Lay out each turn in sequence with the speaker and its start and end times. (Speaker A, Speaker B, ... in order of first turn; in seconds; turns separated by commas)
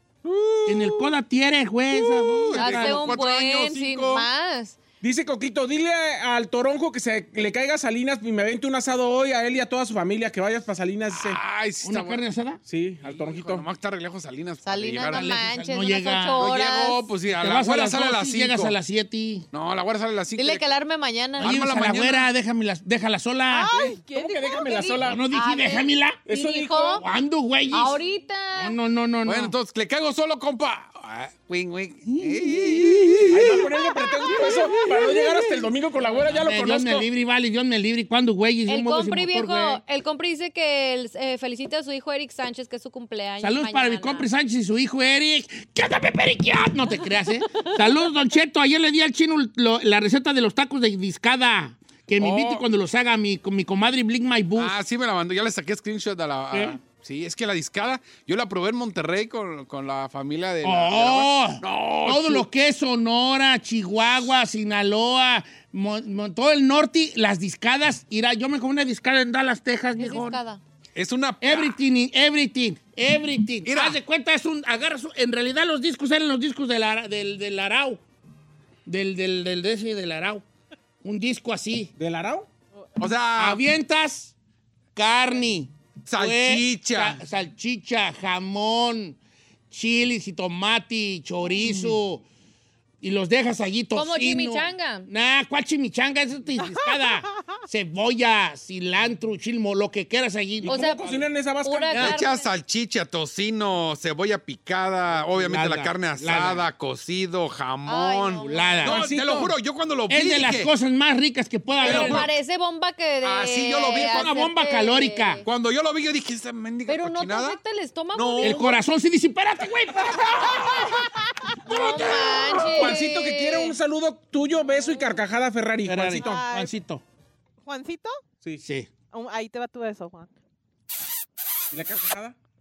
Speaker A: 0.2-0.5, Speaker B: 0.7-3.1, Speaker C: 2.1-4.2, Speaker D: 2.5-4.8, Speaker A: 5.0-11.4, Speaker C: 11.1-12.2, Speaker B: 11.8-12.6, Speaker A: 12.7-13.6, Speaker C: 13.0-15.2, Speaker D: 14.6-17.1, Speaker B: 15.1-16.4, Speaker C: 16.4-18.8, Speaker B: 17.3-19.4, Speaker C: 19.5-20.6, Speaker D: 20.4-21.6, Speaker C: 21.4-22.3, Speaker B: 21.4-23.9, Speaker E: 23.5-25.1, Speaker A: 24.1-25.3, Speaker B: 25.0-26.2, Speaker D: 25.3-27.0, Speaker A: 26.2-27.0, Speaker B: 27.0-28.0, Speaker D: 27.7-28.8, Speaker B: 28.6-29.5, Speaker C: 29.2-33.2, Speaker B: 32.0-35.3, Speaker A: 33.3-37.1, Speaker E: 34.0-34.8, Speaker B: 36.3-39.8, Speaker D: 38.7-44.3, Speaker B: 43.4-54.7, Speaker C: 52.2-52.6, Speaker C: 54.6-62.5, Speaker B: 60.6-70.4, Speaker D: 70.0-70.6, Speaker C: 70.9-71.8, Speaker B: 71.4-78.0, Speaker C: 73.7-74.0, Speaker B: 78.8-80.4, Speaker B: 81.0-81.9, Speaker A: 82.0-82.5, Speaker C: 83.0-83.6, Speaker B: 83.4-84.3, Speaker B: 84.9-89.2, Speaker C: 86.0-87.2, Speaker B: 89.7-92.2, Speaker B: 93.0-100.9, Speaker D: 93.9-95.1, Speaker E: 96.6-97.4, Speaker A: 100.6-102.0, Speaker D: 100.7-102.5, Speaker C: 102.0-110.7, Speaker B: 105.3-106.7, Speaker D: 107.8-108.8, Speaker B: 108.5-109.1, Speaker A: 108.8-109.5, Speaker B: 110.1-112.2, Speaker D: 111.8-115.4, Speaker C: 111.8-112.3, Speaker C: 113.2-114.3, Speaker B: 113.9-115.4, Speaker C: 115.4-117.6, Speaker D: 116.8-118.8, Speaker C: 118.1-118.6, Speaker B: 118.4-121.0, Speaker D: 121.7-123.8, Speaker B: 121.7-123.0, Speaker A: 122.7-126.4, Speaker B: 125.8-127.0, Speaker E: 126.2-126.8, Speaker E: 127.6-128.2, Speaker B: 128.6-128.9, Speaker E: 129.1-130.3, Speaker A: 131.7-132.3